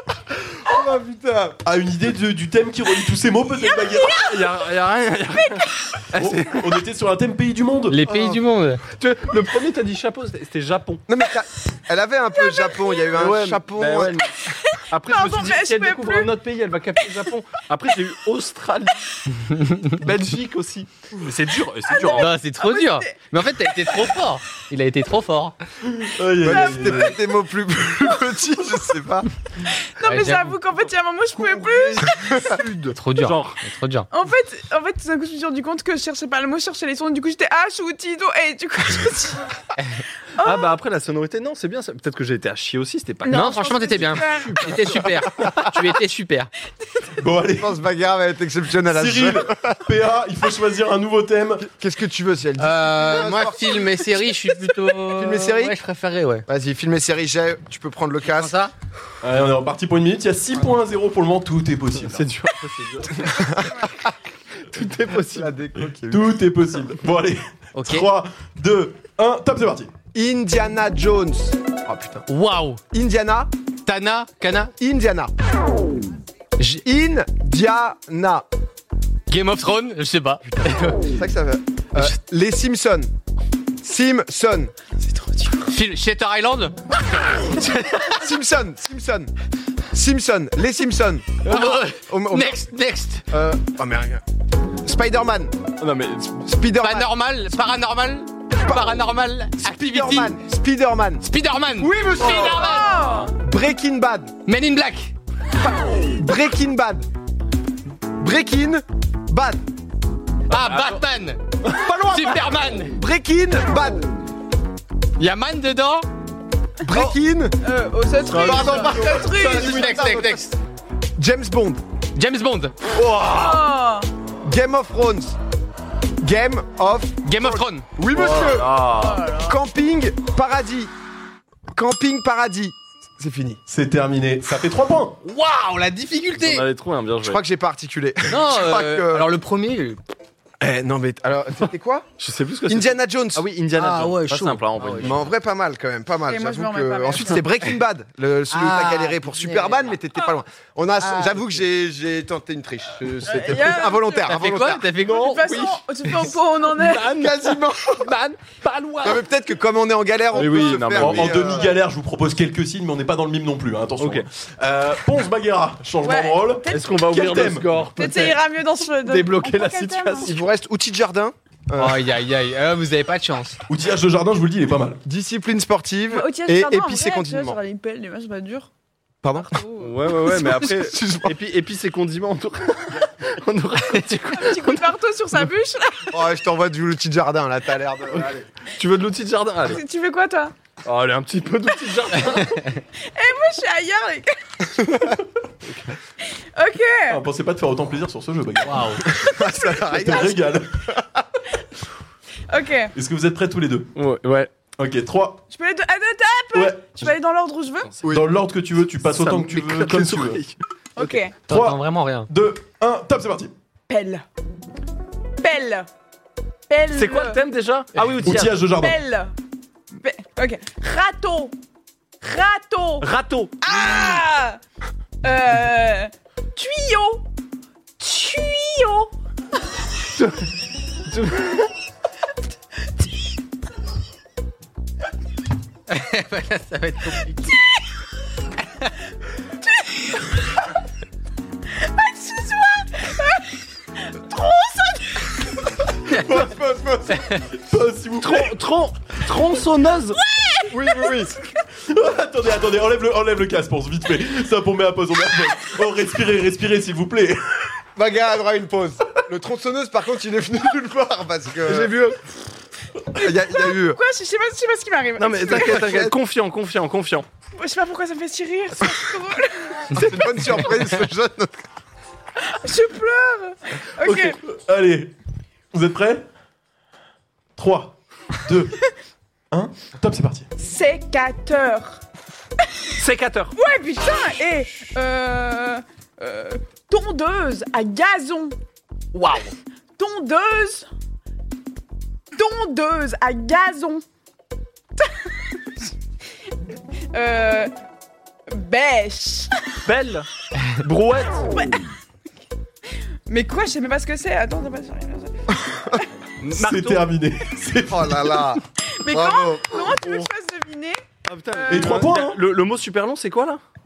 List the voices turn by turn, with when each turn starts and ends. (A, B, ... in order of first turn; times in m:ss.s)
0:00.5-0:01.6 A
0:01.6-0:04.3 B
0:03.8-0:04.3 C
0:04.1-0:06.5 D
0:05.4-0:05.7 C
0:06.2-0:08.1 B
0:07.9-0:08.8 E
0:08.1-0:08.4 A
0:08.9-0:11.0 D
0:11.1-0:14.2 A
0:12.5-0:13.1 C
0:13.2-0:22.4 D
0:14.5-0:16.3 C
0:19.6-0:19.9 E
0:21.8-0:23.2 C
0:22.1-0:25.6 E
0:23.7-0:24.1 C
0:25.9-0:27.2 B
0:26.4-0:29.3 A
0:26.5-0:27.1 C
0:29.7-0:32.4 C
0:30.0-0:30.6 E
0:32.0-0:32.9 A
0:32.9-0:34.1 E
0:33.2-0:33.6 D
0:34.1-0:39.5 C
0:40.4-0:40.7 C
0:40.4-0:43.5 D
0:43.2-0:45.0 C
0:43.3-0:46.5 E
0:47.2-0:47.7 B
0:47.6-0:49.8 A
0:48.9-0:51.7 B
0:51.6-0:54.1 A
0:52.6-0:56.5 E
0:55.0-0:55.8 A
0:56.5-0:58.6 A
0:58.2-0:58.7 E
0:59.2-1:02.3 B
1:02.0-1:03.7 D
1:03.3-1:03.9 A
1:04.7-1:05.5 D
1:05.2-1:06.4 A
1:06.1-1:09.9 B
1:07.8-1:08.1 E
1:10.1-1:12.3 A
1:12.3-1:12.8 E
1:12.9-1:13.5 A
1:13.9-1:14.7 E
1:14.8-1:15.3 A
1:16.6-1:18.5 A
1:19.3-1:21.1 E
1:20.5-1:23.1 A
1:23.8-1:24.7 A
1:25.6-1:28.2 E
1:28.2-1:29.3 A
1:29.9-1:32.7 A
1:31.4-1:33.3 E
1:33.3-1:34.2 A
1:34.8-1:35.6 A
1:35.8-1:36.5 D
1:36.4-1:37.1 A
1:36.8-1:40.4 E
1:38.6-1:39.0 A
1:39.6-1:41.3 A
1:41.2-1:43.0 E
1:41.8-1:44.3 A
1:42.2-1:43.3 C
1:44.5-1:45.2 E
1:45.9-1:47.1 A
1:48.2-1:49.6 A
1:50.5-1:53.0 E
1:50.5-1:51.0 D
1:51.7-1:54.0 A
1:55.2-1:56.1 E
1:56.8-1:57.6 A
1:56.8-1:57.1 C
1:57.6-2:00.2 C
1:58.3-1:59.2 D
1:58.3-2:00.4 A
1:59.0-2:00.6 E
2:01.2-2:01.8 A
2:02.2-2:02.8 E
2:03.0-2:03.6 D
2:03.3-2:04.1 C
2:04.4-2:05.4 A
2:06.2-2:10.9 A
2:07.2-2:07.9 E
2:08.1-2:09.3 D
2:09.0-2:09.5 C
2:11.7-2:13.6 A
2:13.7-2:15.2 B
2:15.2-2:16.7 E
2:16.4-2:17.4 D
2:17.2-2:19.3 A
2:18.3-2:20.0 E
2:20.6-2:22.1 A
2:22.2-2:25.3 D
2:22.7-2:23.5 A
2:23.7-2:25.2 E
2:25.0-2:34.9 A
2:26.3-2:27.5 C
2:28.5-2:30.0 E
2:31.0-2:31.5 E
2:33.2-2:34.3 C
2:34.2-2:35.7 E
2:35.0-2:37.2 C
2:35.4-2:36.2 D
2:36.7-2:39.2 D
2:37.1-2:38.1 A
2:38.1-2:38.6 E
2:39.0-2:41.8 A
2:40.3-2:41.5 D
2:40.9-2:47.9 B
2:44.0-2:44.3 D
2:46.0-2:47.0 C
2:46.7-2:48.4 D
2:48.0-2:50.3 C
2:49.0-2:50.4 D
2:50.2-2:52.0 A
2:51.8-2:53.6 E
2:53.7-2:55.0 B
2:55.0-2:57.6 A
2:56.1-2:58.7 C
2:59.2-2:59.6 A
2:59.4-3:00.6 C
2:59.8-3:04.9 D
3:00.3-3:01.4 A
3:04.3-3:06.2 C
3:06.1-3:08.4 A
3:08.2-3:09.8 D
3:09.6-3:10.5 C
3:10.8-3:12.8 D
3:13.1-3:14.9 C
3:15.6-3:15.9 D
3:16.3-3:17.2 C
3:17.1-3:20.8 B
3:18.7-3:19.0 E
3:19.1-3:21.2 A
3:22.5-3:22.9 C
3:23.0-3:23.9 B
3:24.0-3:24.5 D
3:24.8-3:25.4 B
3:25.5-3:28.0 C
3:26.5-3:27.1 B
3:28.0-3:30.4 B
3:29.0-3:31.2 D
3:31.0-3:31.4 C
3:31.5-3:32.3 E
3:31.5-3:33.5 B
3:33.9-3:34.2 C
3:35.4-3:35.9 C
3:36.7-3:37.4 C
3:36.9-3:38.6 D
3:38.2-3:39.0 B
3:38.7-3:39.3 C
3:40.0-3:41.5 C
3:42.2-3:43.1 C
3:43.0-3:43.8 D
3:43.6-3:44.6 C
3:45.2-3:47.2 C
3:48.0-3:49.1 C
3:50.2-3:50.5 D
3:51.1-3:51.7 D
3:55.9-3:57.5 E
4:01.7-4:03.4 C
4:04.0-4:05.4 C
4:06.1-4:07.2 A
4:06.2-4:06.5 B
4:07.5-4:08.5 B
4:08.2-4:10.2 D
4:10.2-4:11.3 C
4:10.7-4:11.4 A
4:11.8-4:17.7 B
4:18.0-4:22.2 A
4:21.7-4:22.1 D
4:23.2-4:24.0 A
4:23.7-4:26.0 C
4:25.2-4:27.3 D
4:25.5-4:26.2 A
4:27.6-4:30.0 C
4:29.9-4:31.6 A
4:30.0-4:30.6 D
4:32.4-4:34.4 C
4:34.0-4:35.1 B
4:35.7-4:36.2 B
4:37.6-4:38.8 B
4:39.5-4:40.5 B
4:40.6-4:42.0 C
4:43.0-4:43.5 D
4:43.5-4:48.6 C
4:50.0-4:50.9 C
4:52.3-4:54.0 C
4:55.0-4:55.6 C
4:57.1-4:57.7 C
4:58.5-4:59.5 C
4:59.9-5:01.5 D
5:01.5-5:01.8 C
5:03.3-5:06.1 C
5:06.4-5:07.0 D
5:06.5-5:08.6 B
5:07.9-5:09.9 A
5:09.0-5:11.0 C
5:11.3-5:13.6 D
5:11.5-5:12.1 C
5:11.7-5:12.4 B